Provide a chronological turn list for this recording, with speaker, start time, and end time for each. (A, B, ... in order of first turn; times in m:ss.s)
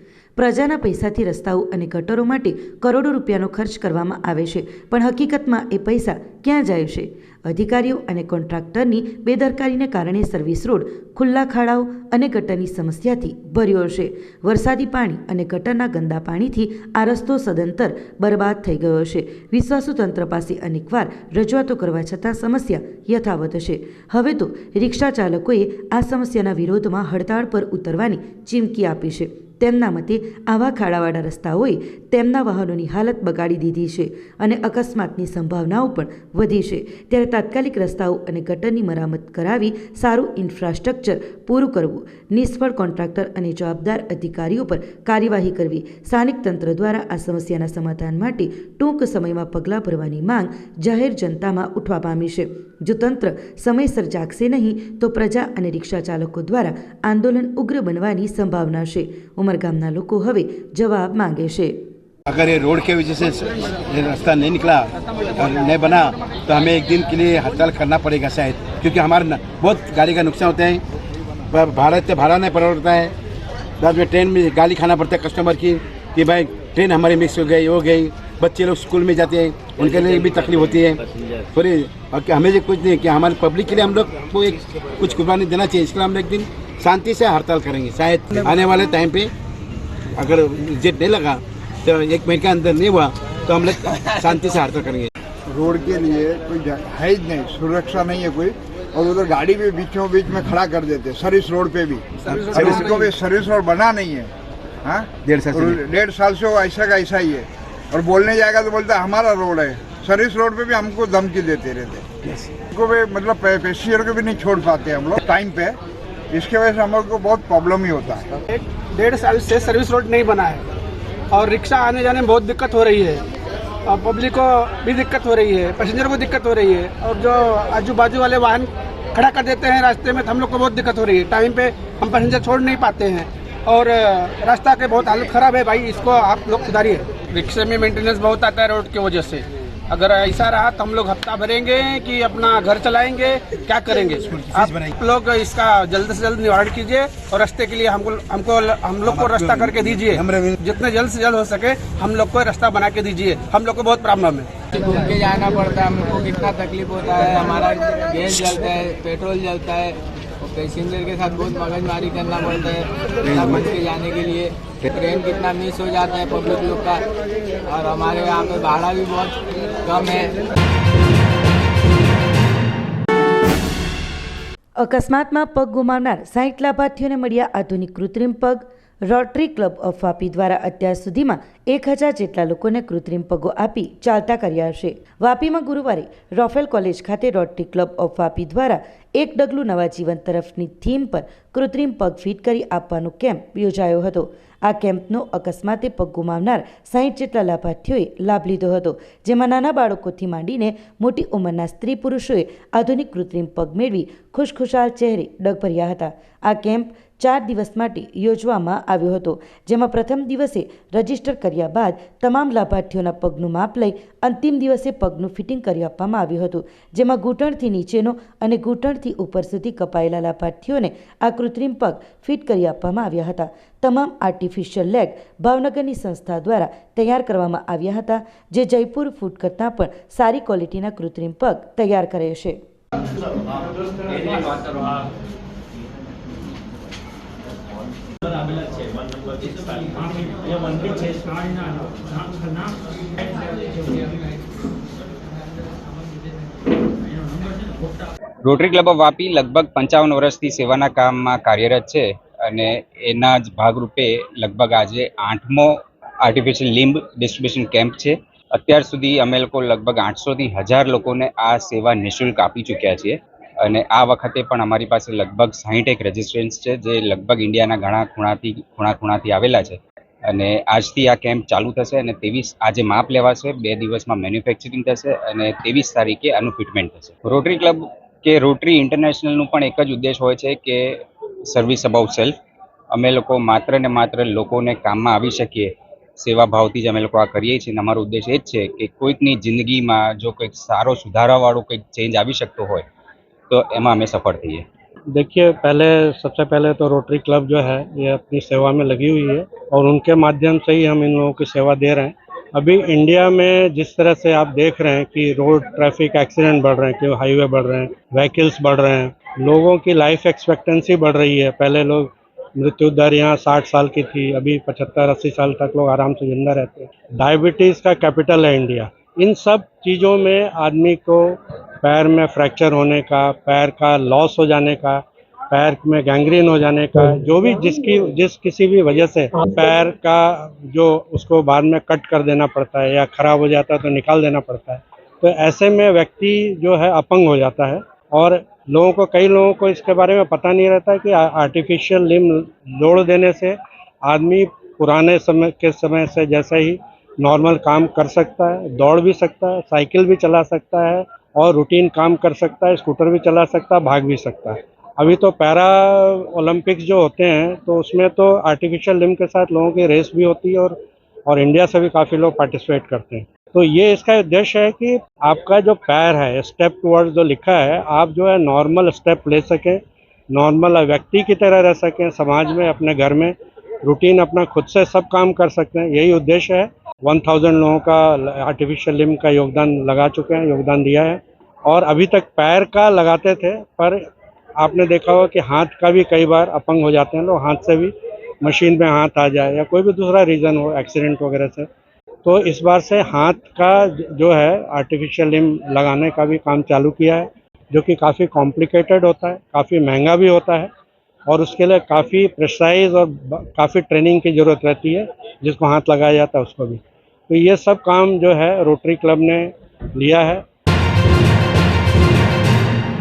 0:00.4-1:01.8 A
1:02.3-1:10.8 B
1:11.5-1:13.1 B
1:13.8-1:29.3 B
1:30.2-1:35.1 B
1:35.5-1:44.3 C
1:42.2-1:43.1 D
1:42.3-1:42.9 B
1:44.8-1:52.1 C
1:45.2-1:45.8 B
1:52.2-1:52.5 B
1:52.7-1:55.8 C
1:56.3-1:58.3 C
1:58.5-2:00.6 D
2:01.3-2:03.2 D
2:03.8-2:34.5 D
2:24.0-2:24.9 B
2:29.0-2:30.5 B
2:34.7-2:47.0 E
2:43.2-2:43.7 B
2:47.6-2:50.3 E
2:54.8-3:52.6 A
4:08.4-4:15.7 F
4:16.2-4:29.8 F
4:30.3-4:40.8 F
4:41.5-4:42.3 F
4:42.9-4:52.8 F
4:53.5-4:54.6 F
4:55.1-6:09.8 G
6:10.3-6:24.0 G
6:24.6-6:31.7 G
6:32.2-6:40.7 G
6:41.3-6:50.4 G